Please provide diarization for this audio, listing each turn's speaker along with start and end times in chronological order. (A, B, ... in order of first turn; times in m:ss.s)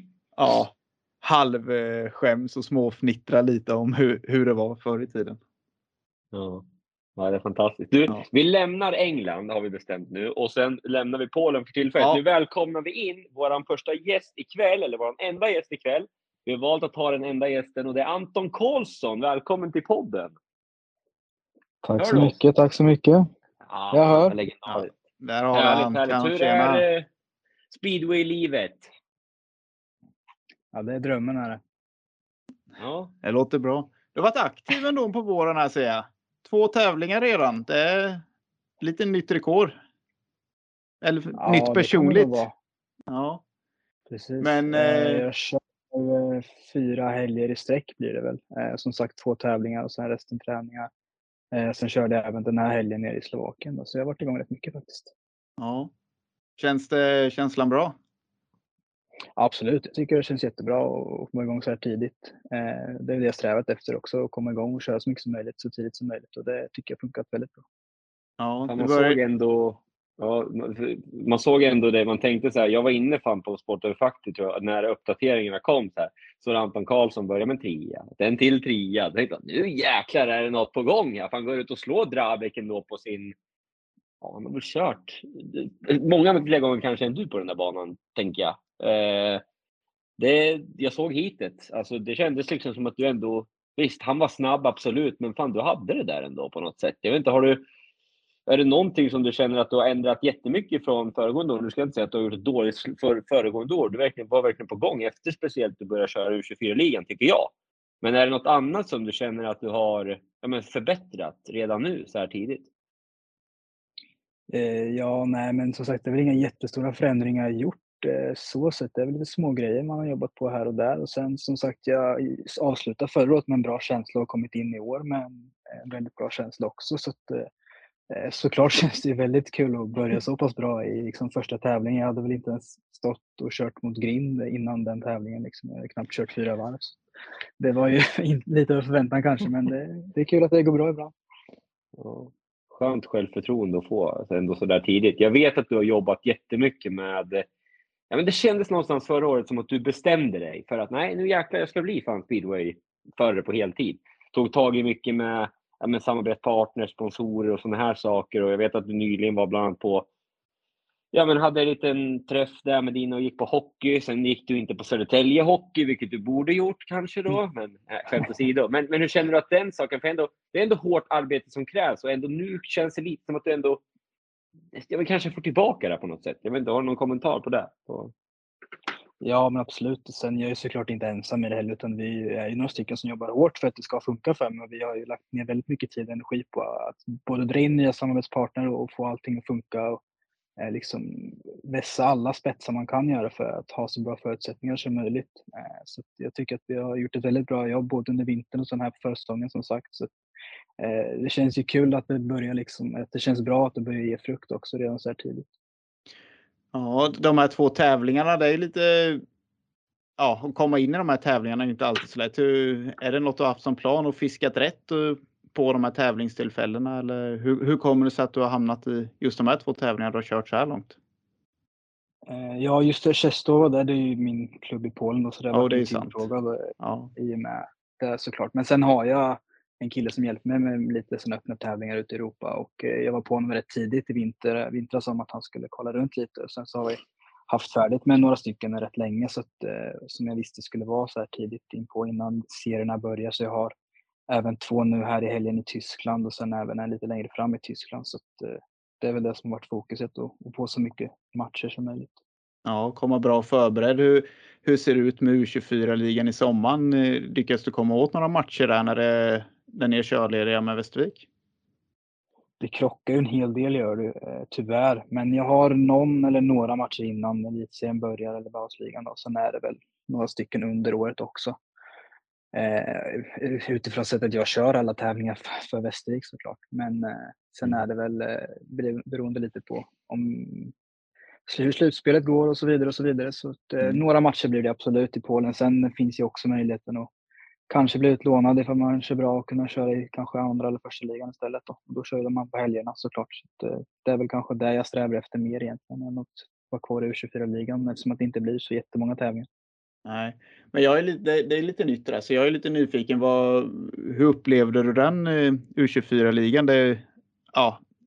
0:00.4-0:05.4 A
0:06.3-0:06.6 B
0:07.2-0:20.3 B
0:21.8-0:23.3 C
0:22.0-0:22.4 B
0:23.6-0:24.9 B
0:23.9-0:24.3 C
0:24.7-0:26.8 A
0:25.5-0:27.1 B
0:27.7-0:28.9 B
0:30.7-0:31.6 C
0:32.8-0:33.1 B
0:33.2-0:38.2 A
0:38.8-0:39.8 A
0:41.0-0:42.4 A
0:41.3-0:42.5 C
0:43.1-0:43.4 A
0:44.1-0:50.9 C
0:44.4-0:45.2 A
0:51.5-0:55.1 C
0:55.6-0:55.9 A
0:56.6-0:57.9 A
0:59.4-1:07.6 C
1:08.4-1:09.2 A
1:08.7-1:23.3 B
1:24.2-1:29.4 B
1:30.2-1:37.6 B
1:38.5-1:47.5 B
1:48.0-1:52.7 B
1:54.5-2:07.5 C
2:08.1-2:17.0 C
2:17.6-2:21.1 C
2:22.0-2:27.4 B
2:28.1-2:40.1 B
2:41.1-2:53.8 B
2:54.7-2:58.1 B
2:59.2-3:10.0 C
3:10.6-3:20.1 C
3:20.8-3:25.5 C
3:26.7-3:29.2 A
3:30.2-3:41.0 A
3:42.3-4:03.7 C
3:45.5-3:46.2 A
3:46.8-3:47.1 A
4:04.3-4:12.2 C
4:12.6-4:21.2 A
4:22.6-4:31.6 C
4:32.5-4:40.7 C
4:41.5-4:47.1 C
4:47.7-4:59.5 C
5:00.0-5:07.8 A